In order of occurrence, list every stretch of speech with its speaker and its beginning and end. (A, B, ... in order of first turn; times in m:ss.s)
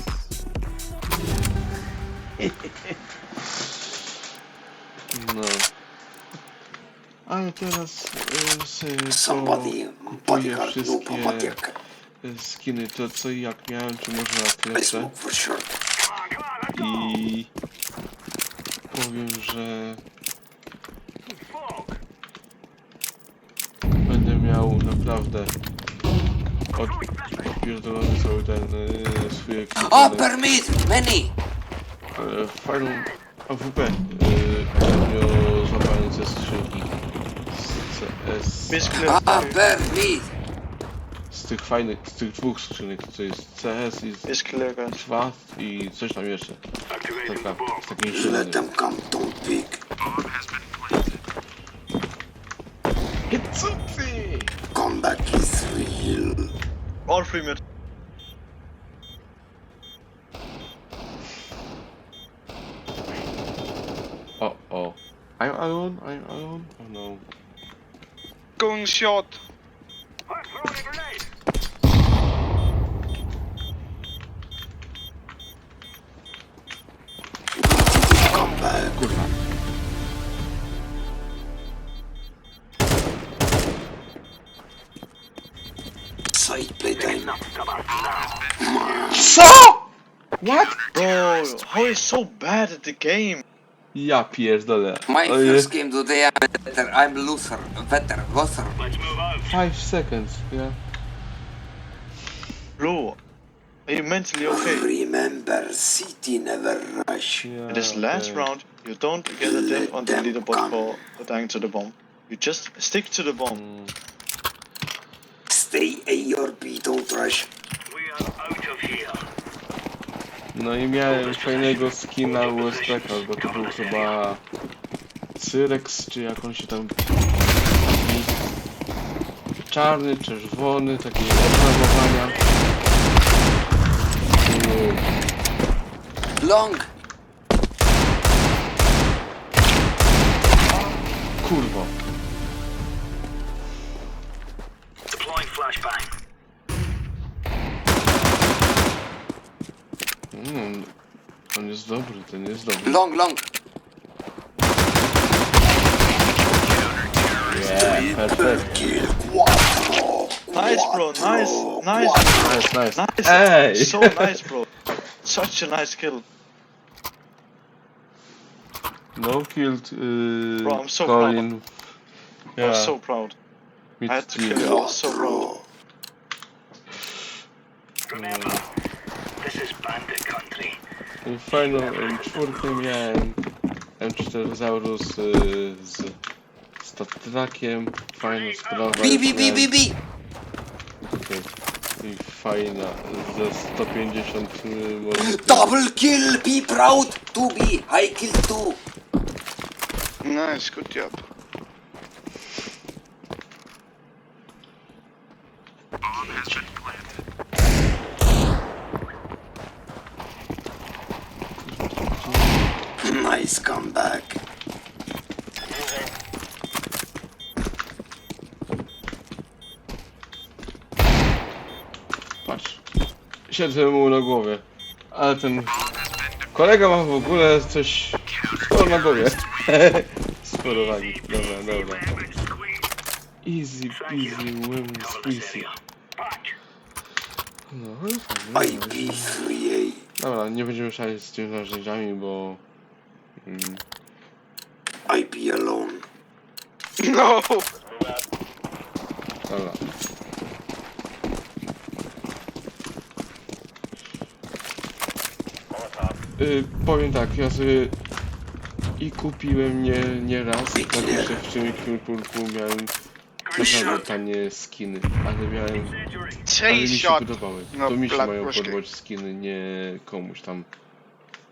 0:01.1-0:01.5 A
0:02.4-0:02.9 A
0:05.1-0:05.7 A
0:07.3-0:11.6 A
0:09.1-0:11.7 B
0:12.2-0:15.1 A
0:14.7-0:15.6 B
0:16.7-0:17.5 A
0:18.9-0:20.0 A
0:24.0-0:25.5 A
0:26.7-0:30.3 A
0:29.8-0:31.3 C
0:32.1-0:36.9 A
0:37.5-0:39.2 A
0:38.7-0:39.6 D
0:39.0-0:40.3 C
0:41.3-0:44.3 A
0:44.3-0:45.0 D
0:44.9-0:48.7 A
0:48.1-0:49.8 B
0:53.3-0:54.5 A
0:54.7-0:56.5 B
0:57.0-0:57.6 D
1:04.4-1:07.2 A
1:08.6-1:09.4 E
1:17.5-1:19.1 B
1:19.0-1:19.3 A
1:26.3-1:27.4 B
1:28.6-1:29.4 B
1:29.1-1:29.8 A
1:30.4-1:30.8 A
1:30.9-1:33.4 D
1:33.9-1:35.7 A
1:35.1-1:38.9 C
1:39.4-1:40.8 A
1:42.8-1:43.2 D
1:43.9-1:44.9 D
1:44.4-1:47.5 B
1:47.4-1:48.5 A
1:47.7-1:53.6 D
1:49.4-1:51.0 B
1:53.5-1:53.9 A
1:55.5-1:57.5 B
2:00.5-2:04.4 A
2:05.4-2:08.4 A
2:09.7-2:12.5 A
2:14.4-2:15.1 A
2:16.4-2:16.9 C
2:21.4-2:21.9 A
2:30.3-2:30.9 A
2:31.5-2:33.0 A
2:32.8-2:33.4 C
2:37.5-2:38.9 A
2:37.8-2:42.7 B
2:40.5-2:44.7 D
2:42.3-2:44.4 A
2:45.2-2:46.2 D
2:49.1-2:51.6 A
2:50.6-2:51.4 D
2:52.5-2:53.0 A
2:52.6-2:53.3 D
2:54.0-2:54.9 A
2:54.1-2:55.5 D
2:54.5-2:55.6 B
2:58.1-2:58.6 A
3:01.2-3:03.4 A
3:04.0-3:06.2 A
3:06.8-3:09.7 A
3:08.9-3:10.0 C
3:11.1-3:11.5 A
3:12.0-3:15.8 A
3:15.2-3:18.8 C
3:20.2-3:21.2 E
3:31.6-3:32.7 A
3:33.0-3:34.4 B
3:42.4-3:42.8 A
3:43.5-3:45.8 A
3:46.5-3:52.1 A
3:53.4-3:55.7 A
3:57.7-3:59.4 A
3:58.5-4:00.0 B
4:00.2-4:02.6 A
4:03.4-4:03.8 A
4:05.1-4:06.0 B
4:07.0-4:07.6 E
4:09.5-4:09.8 A
4:16.4-4:18.0 A
4:19.0-4:22.9 A
4:20.7-4:21.4 B
4:23.5-4:26.0 A
4:23.6-4:24.0 C
4:26.4-4:28.8 E
4:26.6-4:30.7 A